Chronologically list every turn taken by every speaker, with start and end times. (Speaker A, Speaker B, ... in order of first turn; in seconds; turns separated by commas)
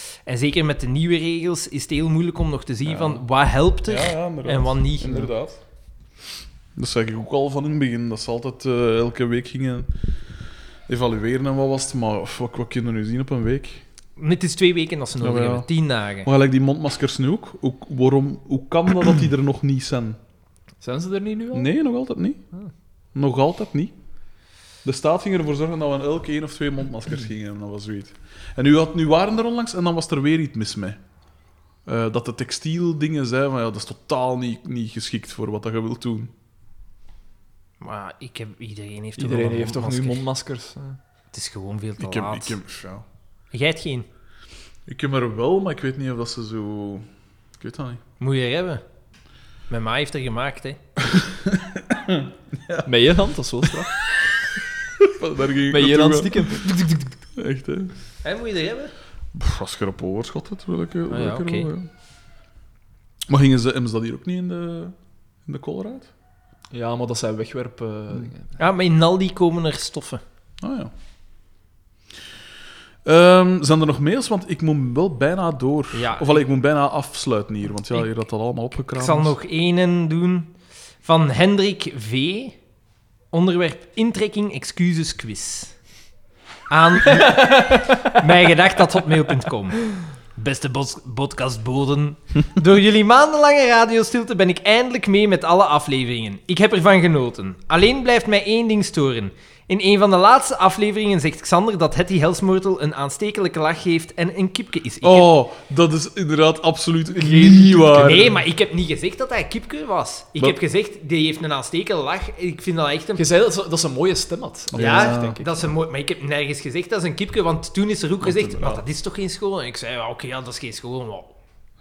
Speaker A: 0.2-5.3, Speaker B: 2.9-3.2, Speaker B: 3.9-5.6, Speaker B: 6.8-9.9, Speaker B: 10.9-13.8, Speaker A: 14.2-16.3, Speaker B: 15.2-15.7, Speaker B: 16.2-20.2, Speaker C: 20.8-21.7, Speaker B: 21.5-22.4, Speaker B: 23.1-23.9, Speaker B: 24.8-31.0, Speaker B: 31.9-36.3, Speaker A: 37.8-40.2, Speaker C: 39.2-40.8, Speaker A: 40.8-42.6, Speaker B: 42.0-43.0, Speaker A: 43.5-44.0, Speaker B: 44.9-47.1, Speaker B: 47.6-48.0, Speaker A: 48.2-48.8, Speaker A: 49.7-50.8, Speaker B: 51.1-52.9, Speaker C: 52.8-54.0, Speaker B: 55.0-56.8, Speaker C: 55.7-57.1, Speaker B: 57.4-57.9, Speaker A: 58.2-58.9, Speaker B: 59.3-61.9, Speaker A: 61.1-61.7, Speaker B: 63.3-64.9, Speaker B: 65.5-66.1, Speaker C: 66.7-68.5, Speaker A: 68.6-70.2, Speaker B: 70.6-70.9, Speaker B: 73.0-79.3, Speaker A: 75.9-76.4, Speaker A: 79.0-80.5, Speaker A: 81.0-82.5, Speaker A: 83.3-85.7, Speaker A: 86.7-105.3, Speaker C: 87.1-88.3, Speaker B: 105.0-108.4, Speaker C: 107.1-108.4, Speaker A: 108.0-113.2, Speaker C: 113.2-115.6, Speaker B: 114.7-115.4, Speaker A: 114.7-121.3, Speaker B: 118.2-118.8